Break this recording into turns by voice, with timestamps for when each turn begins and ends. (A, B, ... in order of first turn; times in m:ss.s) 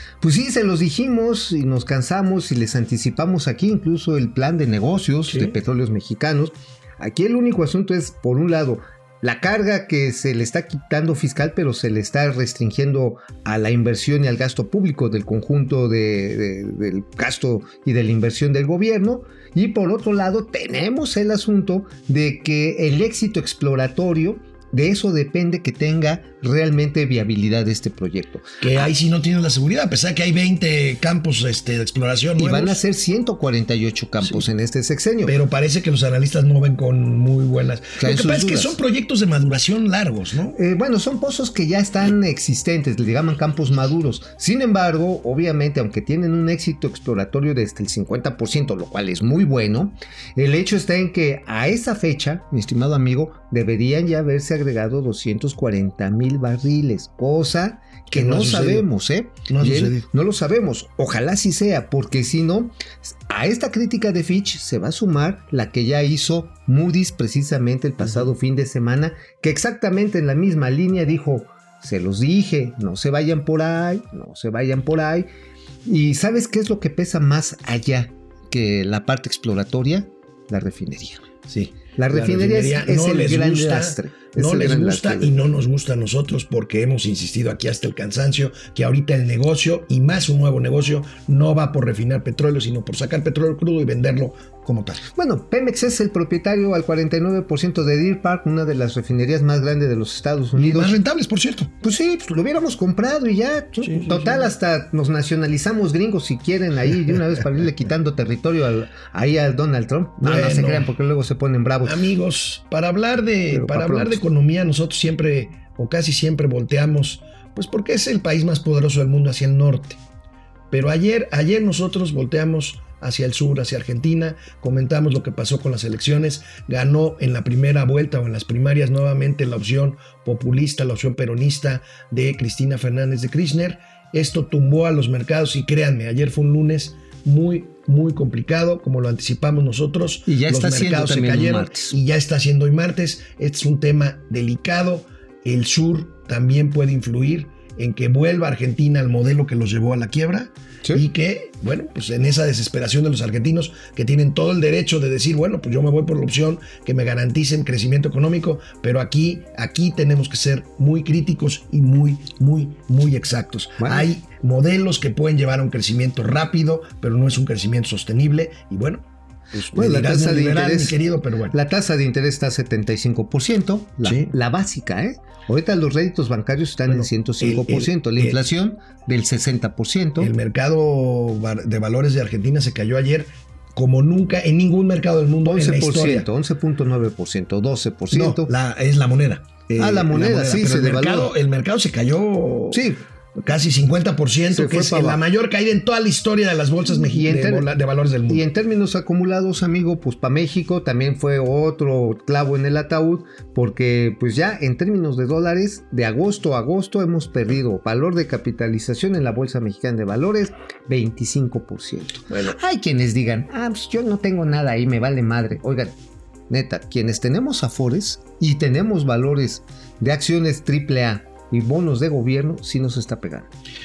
0:00.2-0:28.9 A
0:05.3-0:05.6 B
0:28.6-0:32.8 B
0:32.4-0:35.4 A
0:35.2-0:40.6 B
0:38.0-0:38.8 A
0:40.5-1:15.3 A
0:58.1-0:58.9 B
0:59.5-1:00.0 B
1:08.0-1:08.3 B
1:15.8-1:21.2 A
1:21.5-1:35.0 B
1:22.0-1:25.5 A
1:35.2-1:41.0 A
1:40.5-1:41.7 B
1:41.8-1:52.0 A
1:43.8-1:44.5 B
1:50.2-1:50.9 B
1:51.8-2:00.0 B
1:53.5-1:54.2 A
2:00.7-2:51.6 B
2:20.3-2:21.9 A
2:43.8-2:44.1 A
2:49.7-2:51.0 A
2:51.5-3:00.3 A
2:54.0-2:54.3 B
2:56.9-2:58.4 B
3:00.2-3:06.3 B
3:05.4-3:08.5 A
3:08.1-3:12.8 B
3:09.8-3:11.3 A
3:12.7-3:13.0 A
3:13.4-3:18.4 B
3:14.5-3:15.2 A
3:16.8-3:17.7 A
3:18.3-3:35.9 A
3:36.5-3:43.5 A